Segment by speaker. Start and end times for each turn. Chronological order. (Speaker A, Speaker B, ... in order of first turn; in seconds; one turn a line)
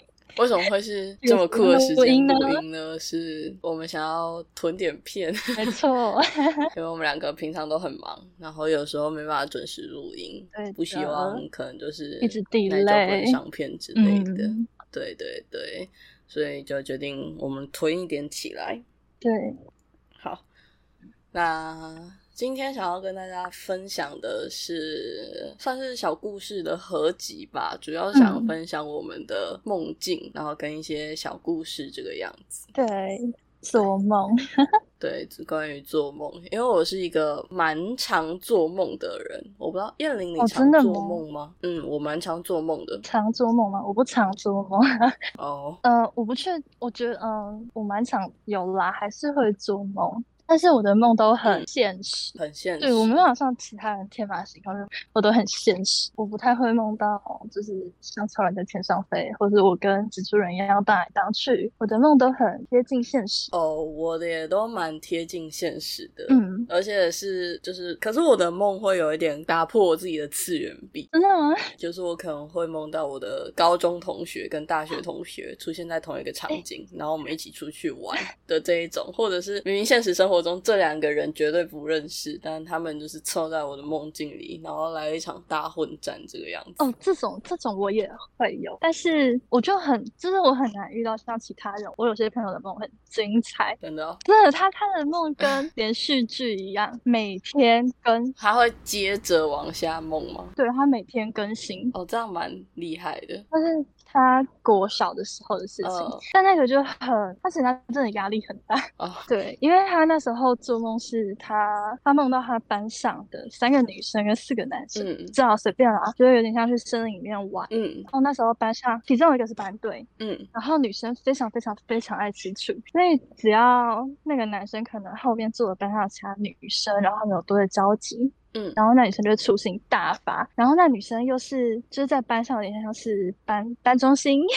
Speaker A: 0.3-5.8
Speaker B: 1.2-2.6
Speaker B: 5.5-6.2
Speaker A: 6.7-18.8
Speaker B: 10.5-11.4
Speaker B: 12.2-13.4
Speaker B: 13.9-14.7
Speaker B: 19.2-19.5
Speaker A: 20.2-20.4
Speaker A: 21.3-32.7
Speaker B: 28.1-28.6
Speaker B: 32.7-34.3
Speaker A: 35.0-43.0
Speaker B: 40.4-41.2
Speaker B: 43.0-45.1
Speaker A: 45.4-45.8
Speaker B: 45.8-63.5
Speaker A: 52.4-53.3
Speaker A: 63.5-71.1
Speaker B: 66.3-66.7
Speaker B: 71.1-71.6
Speaker A: 71.8-86.8
Speaker B: 86.8-98.3
Speaker A: 93.8-94.2
Speaker A: 95.4-95.7
Speaker A: 98.4-100.5
Speaker B: 100.6-101.9
Speaker A: 101.9-103.5
Speaker B: 103.5-134.5
Speaker A: 105.8-106.2
Speaker A: 109.0-109.3
Speaker A: 114.9-115.3
Speaker A: 117.7-118.1
Speaker A: 120.2-120.5
Speaker A: 128.5-128.8